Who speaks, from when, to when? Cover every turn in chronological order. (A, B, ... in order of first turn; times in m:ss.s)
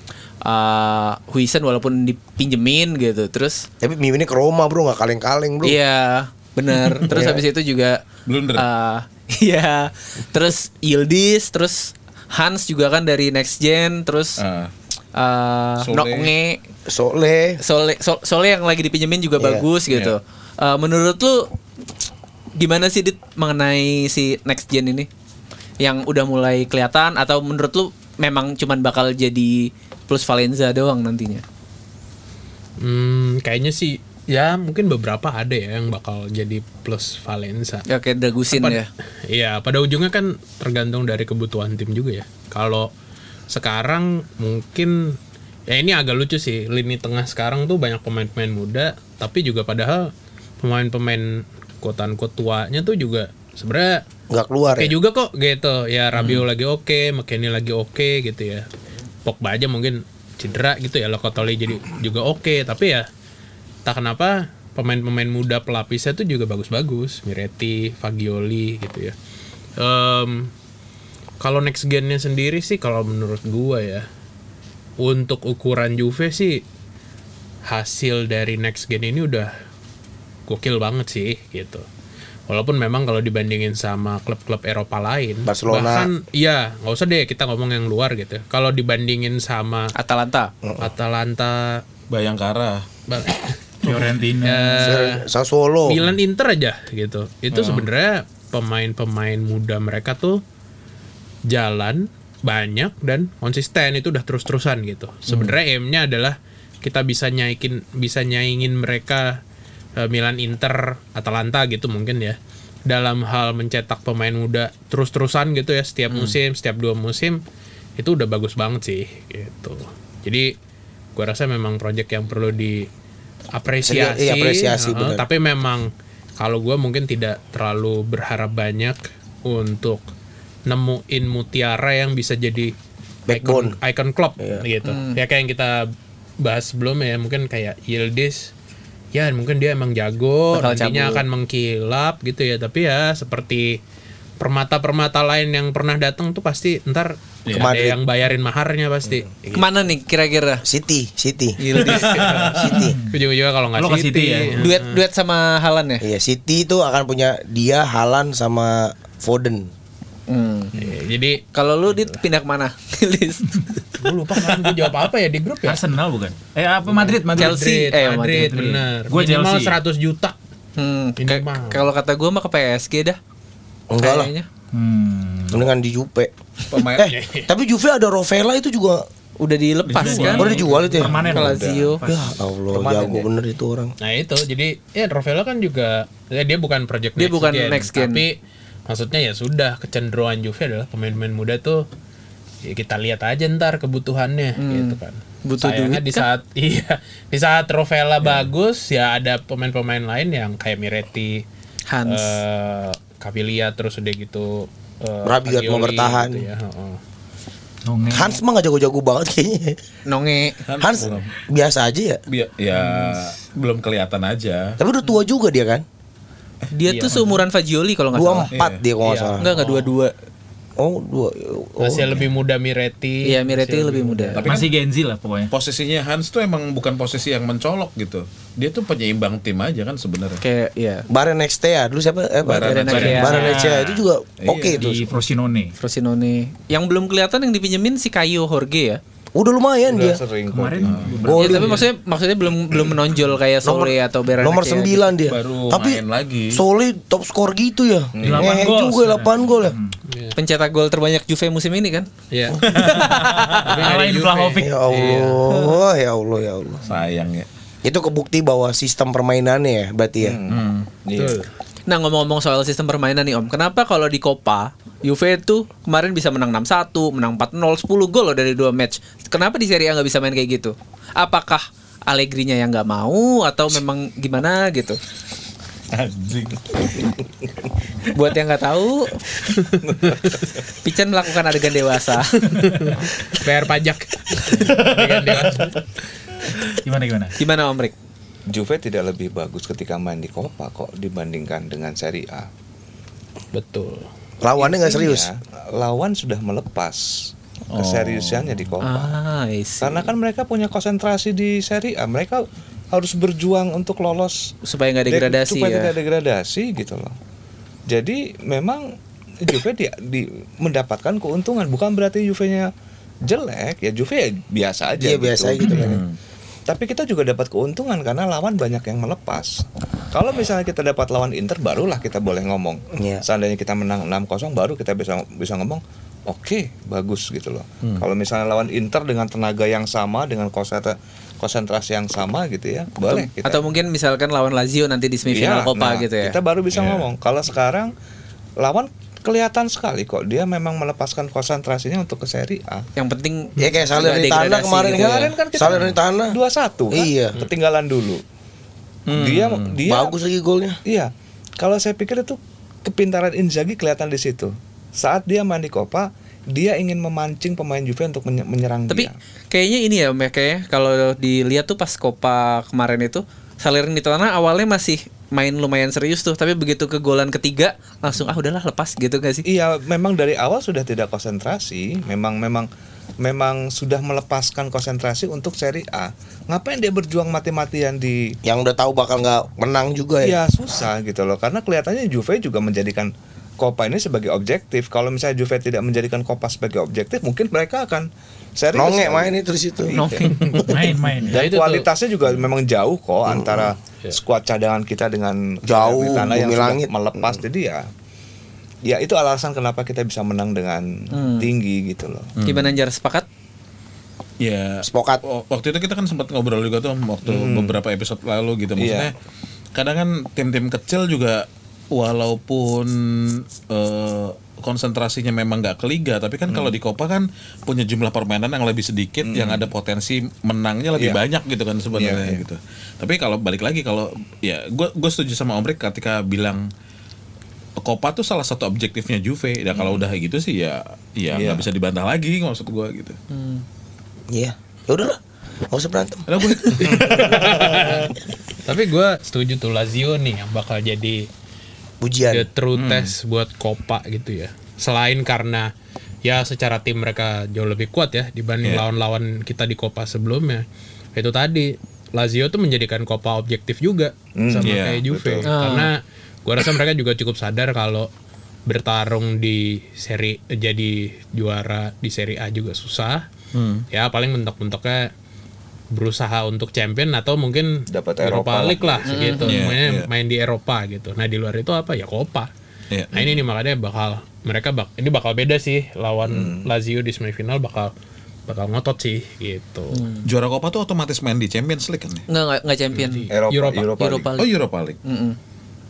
0:00.4-0:03.7 A
0:03.8-0:05.8 B
0:05.6-0:08.0 A
0:07.0-0:07.4 B
0:08.3-0:08.6 C
0:08.6-0:14.4 A
0:14.4-0:14.7 C
0:15.1-0:16.6 A
0:15.8-0:16.3 C
0:16.9-0:17.6 B
0:17.6-0:21.5 A
0:19.4-0:19.6 B
0:22.6-0:25.1 A
0:25.8-0:31.4 A
0:32.8-0:37.8 D
0:37.9-0:38.9 A
0:38.5-0:42.9 D
0:43.5-0:45.2 D
0:45.7-0:50.1 D
0:50.6-0:54.0 D
0:54.3-0:54.9 B
0:54.8-0:58.7 D
0:56.1-0:56.4 C
0:59.2-1:03.0 D
1:03.8-1:09.1 D
1:09.8-1:10.5 D
1:11.4-1:14.0 D
1:15.0-1:16.6 D
1:17.7-1:19.5 D
1:20.5-1:21.8 D
1:22.5-1:29.9 D
1:25.5-1:26.1 B
1:29.9-1:30.5 A
1:30.8-1:31.8 D
1:32.1-1:32.9 C
1:33.1-1:35.2 D
1:33.8-1:34.9 E
1:34.8-1:36.0 B
1:35.9-1:40.4 D
1:37.5-1:37.8 C
1:41.5-1:49.4 D
1:45.3-1:45.6 C
1:50.0-1:57.4 D
1:56.1-1:56.4 C
1:58.0-2:00.5 D
2:01.2-2:02.9 D
2:03.5-2:10.0 D
2:03.8-2:05.2 B
2:10.7-2:12.7 D
2:13.3-2:13.7 B
2:13.3-2:15.8 D
2:14.8-2:15.2 A
2:16.4-2:18.5 D
2:19.1-2:23.8 D
2:20.5-2:21.2 A
2:24.4-2:29.7 D
2:27.4-2:27.7 C
2:27.5-2:28.0 B
2:29.5-2:30.6 A
2:30.6-2:31.6 B
2:31.6-2:32.1 A
2:31.7-2:32.4 D
2:31.8-2:32.8 C
2:32.5-2:33.0 B
2:32.8-2:33.2 E
2:33.1-2:35.0 D
2:33.7-2:34.7 E
2:34.5-2:36.0 A
2:36.0-2:39.7 B
2:40.3-2:40.8 A
2:40.8-2:41.4 D
2:41.5-2:43.6 A
2:41.9-2:42.2 D
2:44.0-2:45.8 D
2:45.6-2:47.6 E
2:46.9-2:50.4 D
2:47.4-2:48.6 A
2:48.4-2:49.8 E
2:50.8-2:53.2 A
2:51.2-2:51.8 D
2:53.9-2:54.3 B
2:54.0-2:54.4 A
2:54.7-2:55.7 E
2:55.5-2:56.3 B
2:56.7-2:57.2 C
2:56.9-2:59.0 B
2:57.0-2:57.5 D
2:59.4-3:00.6 A
2:59.9-3:01.1 C
3:00.0-3:01.7 E
3:00.3-3:01.2 B
3:01.2-3:03.2 F
3:01.3-3:02.0 A
3:02.0-3:03.9 B
3:04.0-3:08.4 D
3:07.2-3:08.2 A
3:08.9-3:11.8 D
3:12.7-3:21.4 D
3:14.6-3:16.3 A
3:18.2-3:18.5 C
3:21.9-3:22.4 A
3:22.0-3:27.0 D
3:25.2-3:26.5 B
3:27.8-3:28.4 E
3:28.1-3:29.8 B
3:30.1-3:30.6 A
3:30.7-3:31.3 C
3:30.8-3:32.2 B
3:32.3-3:34.8 C
3:32.7-3:33.3 E
3:34.8-3:35.8 B
3:36.7-3:38.5 A
3:36.8-3:37.4 D
3:38.1-3:39.4 B
3:38.5-3:38.8 C
3:39.0-3:39.9 D
3:39.4-3:40.1 A
3:40.8-3:42.3 B
3:41.8-3:44.4 D
3:43.2-3:44.4 A
3:44.3-3:44.7 C
3:44.4-3:45.5 E
3:45.5-3:50.4 C
3:50.4-3:51.0 A
3:51.1-3:55.0 B
3:52.4-3:53.8 C
3:52.6-3:53.5 A
3:52.9-3:53.9 E
3:54.4-3:54.8 C
3:54.7-3:55.7 E
3:55.8-3:59.0 A
3:59.4-4:00.2 B
3:59.8-4:01.8 F
4:00.5-4:01.9 E
4:00.8-4:01.4 C
4:01.3-4:05.0 A
4:03.6-4:09.8 B
4:05.2-4:06.6 C
4:08.1-4:08.6 F
4:08.2-4:08.5 C
4:08.2-4:10.0 E
4:10.1-4:10.3 D
4:10.4-4:12.1 A
4:12.3-4:12.7 D
4:12.7-4:13.7 C
4:12.8-4:13.7 A
4:13.7-4:15.6 D
4:13.8-4:15.2 E
4:14.6-4:16.8 B
4:16.8-4:17.5 C
4:17.8-4:20.4 B
4:20.2-4:21.4 F
4:20.5-4:20.9 C
4:21.2-4:21.5 D
4:21.9-4:35.0 A
4:35.9-4:37.1 C
4:38.1-4:39.3 A
4:39.9-4:40.1 F
4:40.8-4:42.3 A
4:42.5-4:45.7 D
4:44.4-4:45.8 C
4:46.8-4:47.3 E
4:47.4-4:47.9 A
4:48.5-4:52.5 F
4:53.5-4:54.1 D
4:54.4-4:55.3 B
4:54.6-4:59.2 F
4:57.7-4:58.7 C
4:58.8-5:00.1 A
4:59.8-5:04.5 F
5:04.6-5:05.9 A
5:05.1-5:07.1 F
5:07.9-5:08.9 F
5:09.4-5:12.7 F
5:13.2-5:16.0 F
5:15.0-5:16.0 B
5:15.6-5:16.2 C
5:16.7-5:33.6 F
5:22.9-5:23.2 B
5:33.0-5:36.4 A
5:35.3-5:37.9 F
5:36.7-5:37.0 C
5:38.6-5:42.8 F
5:43.0-5:45.3 A
5:43.6-5:43.8 D
5:43.6-5:46.4 B
5:44.9-5:48.2 F
5:45.7-5:46.0 C
5:46.9-5:47.4 B
5:49.1-5:49.8 C
5:49.1-5:50.1 F
5:49.8-5:50.8 B
5:50.8-5:59.2 F
5:58.9-6:09.4 A
6:09.4-6:12.7 F
6:13.2-6:18.3 F
6:18.4-6:20.4 B
6:20.2-6:30.7 F
6:28.7-6:30.0 B
6:30.0-6:30.3 A
6:30.3-6:30.8 D
6:30.7-6:31.4 E
6:31.3-6:37.9 F
6:31.3-6:31.9 D
6:33.3-6:33.7 B
6:35.6-6:36.9 B
6:38.8-6:42.3 F
6:41.1-6:41.5 A
6:42.4-6:42.8 C
6:42.4-6:43.2 A
6:44.4-6:49.1 C
6:44.8-6:45.2 B
6:47.2-6:47.8 F
6:48.8-6:49.1 F
6:49.7-7:06.7 C
6:56.5-6:56.7 F
6:59.2-6:59.7 F
7:00.9-7:01.2 F
7:01.9-7:02.4 F
7:07.8-7:13.2 C
7:09.7-7:10.0 F
7:11.3-7:11.6 F
7:13.3-7:13.6 A
7:14.3-7:15.2 B
7:15.7-7:16.8 B
7:16.3-7:18.1 C
7:16.8-7:21.2 D
7:22.0-7:22.5 B
7:22.3-7:25.7 D
7:22.8-7:23.1 C
7:26.2-7:30.6 D
7:31.2-7:38.1 D
7:34.4-7:35.5 F
7:34.6-7:35.1 C
7:35.4-7:35.9 A
7:38.7-7:43.2 D
7:43.5-7:43.8 C
7:43.9-7:45.1 D
7:45.9-7:52.5 D
7:47.9-7:49.4 F
7:49.1-7:49.6 A
7:49.4-7:50.1 C
7:52.9-7:53.4 C
7:53.1-7:57.9 D
7:56.2-7:56.7 F
7:58.5-8:00.1 D
7:59.9-8:00.2 A
8:00.2-8:02.2 C
8:02.3-8:03.3 A
8:03.0-8:04.0 D
8:03.3-8:04.3 F
8:04.0-8:04.5 A
8:04.4-8:05.0 C
8:05.0-8:05.4 A